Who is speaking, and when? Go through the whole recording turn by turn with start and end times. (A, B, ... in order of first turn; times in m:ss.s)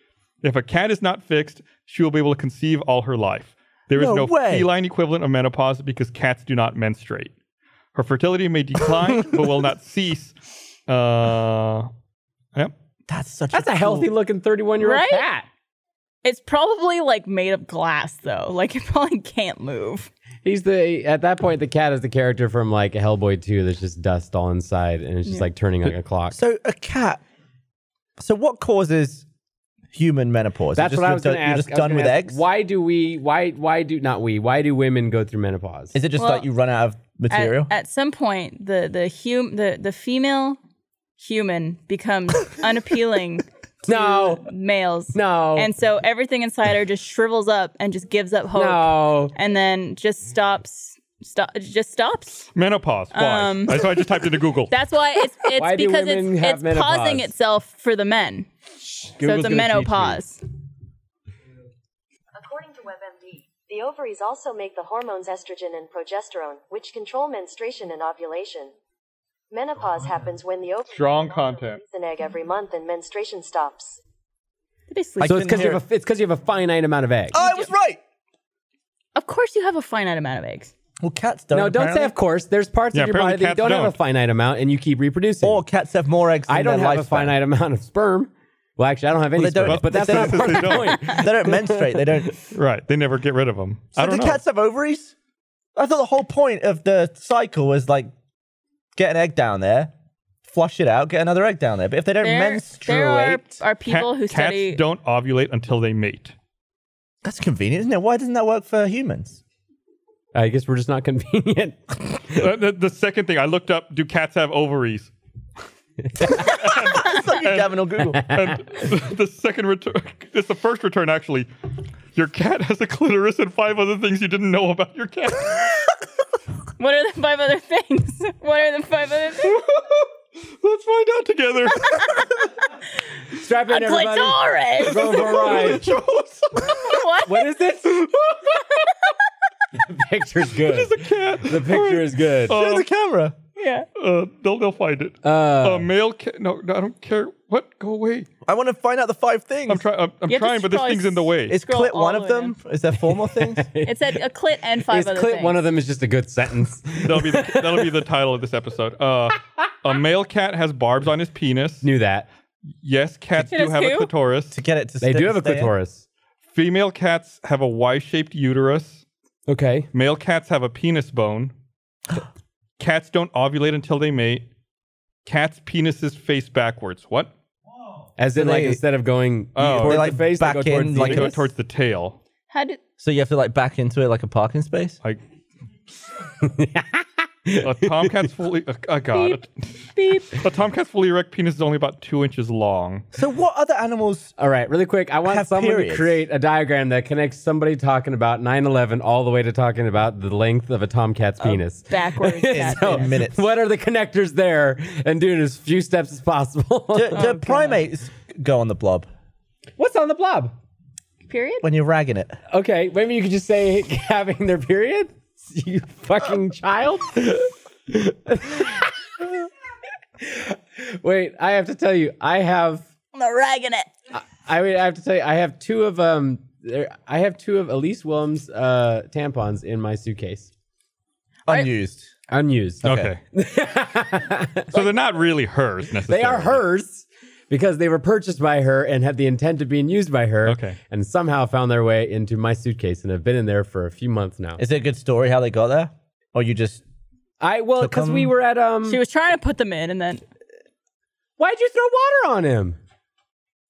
0:00.4-0:07.3 A
0:03.9-0:04.7 B
0:07.9-0:11.9 A
0:13.1-0:14.1 B
0:13.5-0:15.5 C
0:14.8-0:15.3 D
0:16.2-0:20.1 D
0:20.4-0:26.4 C
0:26.3-0:27.2 B
0:28.2-0:29.2 B
0:29.9-0:32.4 B
0:30.7-0:36.0 C
0:35.9-0:37.7 B
0:36.2-0:36.4 D
0:37.3-0:40.6 D
0:41.2-0:52.5 D
0:43.8-0:44.4 C
0:45.1-0:45.7 C
0:48.5-0:49.4 C
0:52.5-0:54.7 A
0:53.1-0:53.9 D
0:54.7-0:58.5 D
0:55.6-0:57.3 C
0:58.8-1:00.2 C
0:59.2-1:00.4 D
1:02.3-1:08.7 E
1:09.5-1:14.0 E
1:10.9-1:11.8 A
1:14.9-1:15.5 D
1:15.2-1:15.8 B
1:15.2-1:17.4 C
1:17.3-1:18.0 B
1:17.4-1:17.7 D
1:19.2-1:20.7 D
1:21.0-1:22.1 B
1:21.5-1:25.6 C
1:22.9-1:23.9 A
1:25.4-1:27.4 B
1:26.5-1:32.3 C
1:29.4-1:32.4 B
1:29.6-1:31.1 A
1:30.9-1:31.2 D
1:32.5-1:34.4 A
1:34.0-1:35.1 B
1:35.8-1:38.1 B
1:39.0-1:39.9 B
1:40.4-1:43.6 B
1:42.2-1:44.8 D
1:43.9-1:46.3 A
1:47.2-1:49.4 B
1:50.3-1:52.5 C
1:52.3-1:55.1 A
1:56.3-2:01.5 A
1:56.4-1:58.3 B
1:58.3-1:58.6 C
2:02.1-2:05.8 A
2:06.8-2:09.6 D
2:09.4-2:12.2 A
2:13.3-2:16.0 C
2:13.7-2:15.3 D
2:14.9-2:17.0 A
2:16.7-2:17.5 D
2:17.2-2:18.0 C
2:17.9-2:18.6 A
2:19.8-2:22.6 C
2:20.6-2:22.9 A
2:22.5-2:23.4 B
2:23.6-2:23.9 D
2:24.0-2:28.3 A
2:25.2-2:25.9 C
2:28.4-2:29.8 B
2:29.7-2:31.6 A
2:30.3-2:32.6 D
2:31.5-2:33.7 B
2:33.1-2:34.2 C
2:33.8-2:35.6 D
2:34.8-2:38.0 C
2:37.0-2:41.9 A
2:41.8-2:42.3 C
2:42.8-2:44.6 A
2:43.4-2:44.1 D
2:44.5-2:45.7 B
2:45.0-2:46.0 C
2:46.5-2:49.0 A
2:49.5-2:49.9 C
2:49.9-2:51.5 A
2:52.8-2:54.4 A
2:55.2-2:57.3 A
2:58.2-3:01.4 C
2:58.3-2:58.8 B
2:59.6-3:00.2 A
2:59.6-3:01.4 B
3:01.0-3:02.2 A
3:02.5-3:02.8 D
3:03.0-3:05.0 B
3:06.4-3:08.3 C
3:07.6-3:09.5 A
3:09.1-3:09.4 D
3:10.0-3:10.3 D
3:10.2-3:13.1 A
3:13.1-3:14.3 B
3:14.4-3:27.6 C
3:15.2-3:16.1 B
3:21.4-3:23.1 D
3:22.5-3:23.4 B
3:26.9-3:29.1 B
3:27.1-3:27.8 D
3:29.8-3:30.5 C
3:31.3-3:31.6 D
3:31.6-3:32.4 B
3:32.5-3:39.5 C
3:40.2-3:42.8 C
3:43.1-3:43.9 D
3:44.1-3:50.5 C
3:51.5-3:52.1 B
3:52.3-3:54.9 C
3:52.8-3:53.1 B
3:52.8-3:53.2 A
3:54.7-3:56.6 A
3:56.0-4:04.6 C
4:00.4-4:00.8 A
4:04.6-4:06.8 B
4:07.4-4:09.0 C
4:07.8-4:08.3 B
4:08.9-4:10.2 D
4:11.4-4:12.8 C